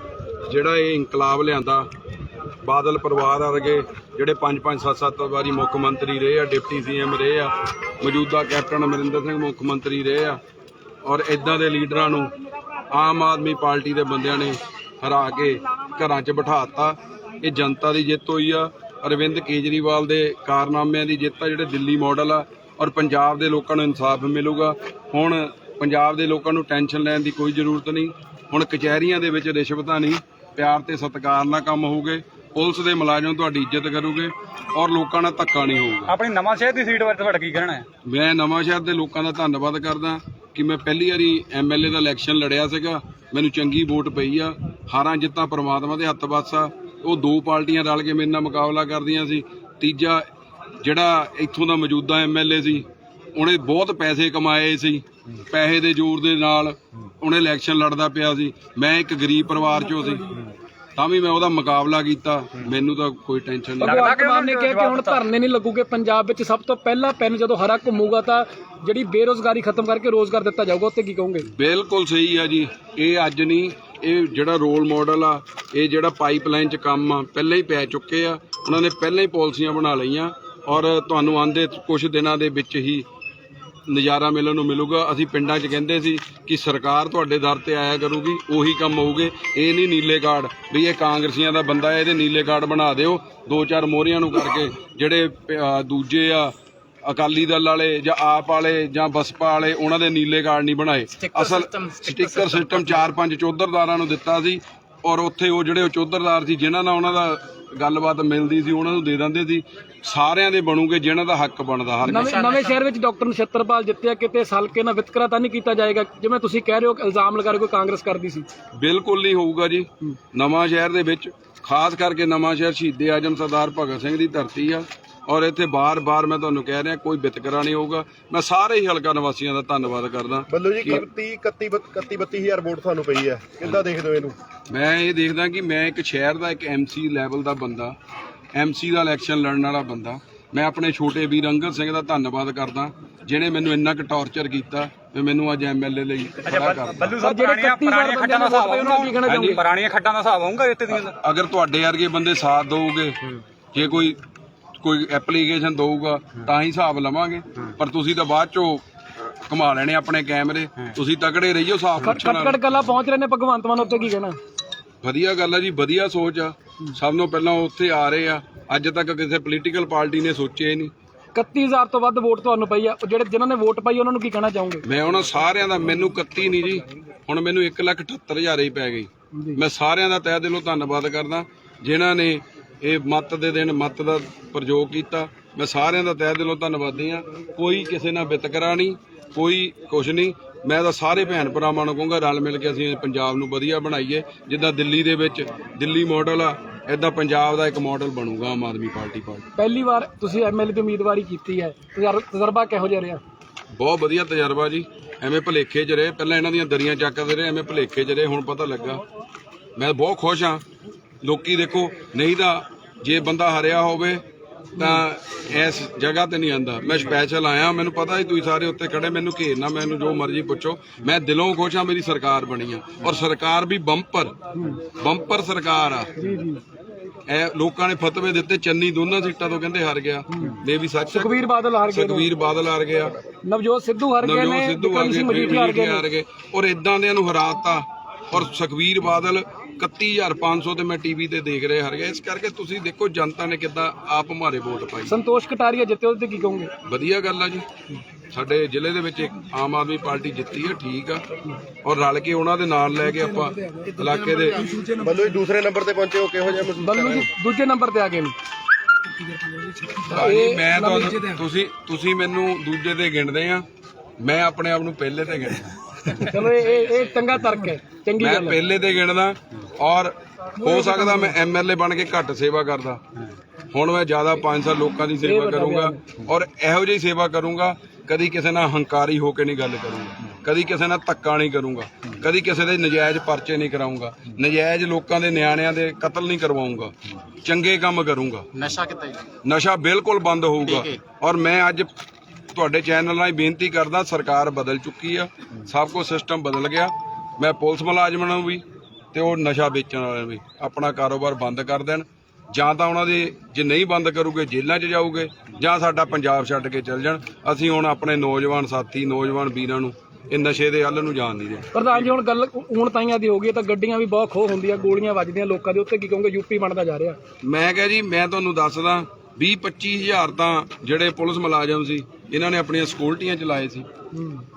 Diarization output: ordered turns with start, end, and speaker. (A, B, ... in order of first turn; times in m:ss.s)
0:00.4-0:01.9 A
0:02.6-0:10.4 A
0:11.0-0:36.2 A
0:36.1-0:37.8 B
0:38.0-0:50.2 A
0:50.8-1:00.4 A
1:01.0-1:04.2 A
1:03.8-1:11.5 C
1:03.8-1:05.2 B
1:11.5-1:23.0 A
1:23.9-1:36.5 A
1:37.0-1:52.4 A
1:41.2-1:42.8 B
1:52.0-1:58.5 C
1:52.2-1:52.8 B
1:58.8-2:11.0 A
2:10.5-2:14.4 D
2:14.7-2:17.9 A
2:18.5-2:27.2 A
2:26.4-2:31.1 B
2:27.2-2:29.6 C
2:29.2-2:29.6 A
2:30.9-2:33.2 A
2:33.7-2:34.2 A
2:34.8-2:42.6 A
2:42.0-2:44.4 C
2:45.0-2:50.9 A
2:51.3-2:54.8 C
2:54.8-3:19.5 A
2:59.3-2:59.6 C
3:19.6-3:23.2 C
3:23.7-3:29.0 A
3:29.8-3:30.6 A
3:31.2-3:34.2 A
3:34.8-3:46.2 A
3:34.8-3:35.0 C
3:46.2-3:46.6 C
3:47.3-3:53.1 A
3:50.3-3:52.3 C
3:53.4-3:56.1 C
3:54.2-4:05.2 A
4:05.1-4:06.7 C
4:06.8-4:07.6 A
4:08.3-4:11.2 A
4:11.8-4:14.7 A
4:14.9-4:17.3 D
4:16.8-4:18.4 C
4:19.3-4:21.4 C
4:20.0-4:23.6 A
4:24.2-4:26.3 A
4:26.1-4:28.6 C
4:28.2-4:33.0 A
4:30.6-4:31.3 C
4:33.7-4:48.7 A
4:35.2-4:36.0 C
4:48.6-4:49.2 B
4:49.4-4:51.9 A
4:50.7-4:51.0 B
4:52.5-5:12.1 A
5:11.7-5:17.2 C
5:17.4-5:23.9 A
5:24.1-5:24.4 C